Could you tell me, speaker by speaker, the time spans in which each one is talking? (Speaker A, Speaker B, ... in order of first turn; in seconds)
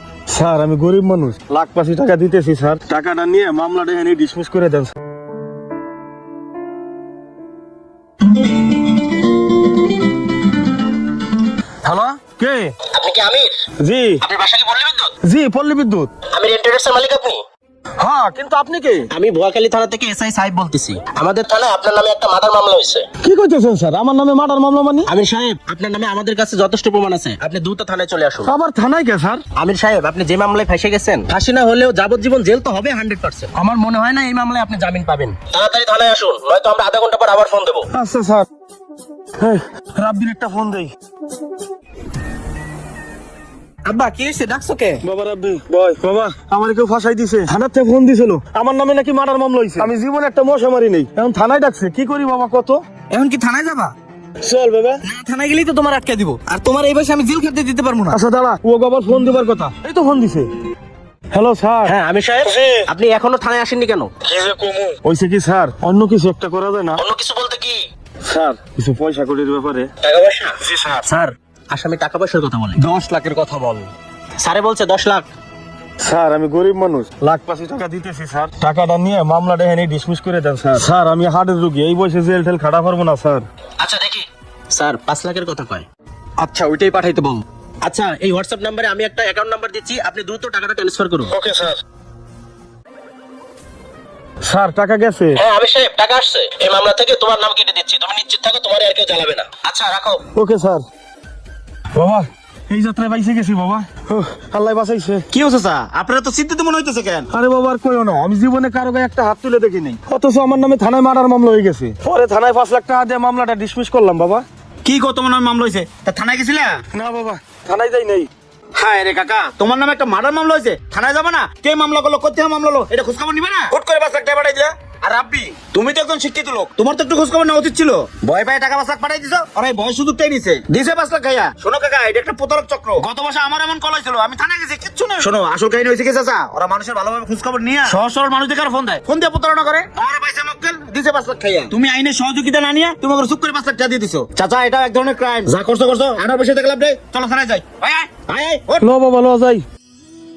Speaker A: 0.3-4.9, 11.8-12.7, 13.8-14.2, 15.2-16.1, 18.0-19.1, 23.2-25.1, 28.4-29.4, 37.9-38.5, 39.4-40.9, 45.0-52.8, 54.4-55.0, 58.1-60.5, 61.3-62.8, 64.3-67.0, 68.2-69.9, 70.7-71.0, 72.8-73.9, 76.0-83.4, 86.4-87.4, 91.3-91.8, 94.4-95.4, 100.3-100.8, 101.9-105.2, 107.3-114.4, 116.9-118.3, 148.8-149.6
Speaker B: 12.9-13.5, 14.2-15.1, 16.3-17.4, 19.1-23.1, 25.1-28.5, 29.6-37.9, 43.8-45.0, 61.9-64.1, 67.0-67.8, 70.0-72.8, 74.4-75.3, 83.8-85.8, 87.8-91.3, 95.3-100.2
Speaker C: 53.1-53.9, 55.1-56.6, 105.3-107.3, 114.8-116.8, 118.7-148.8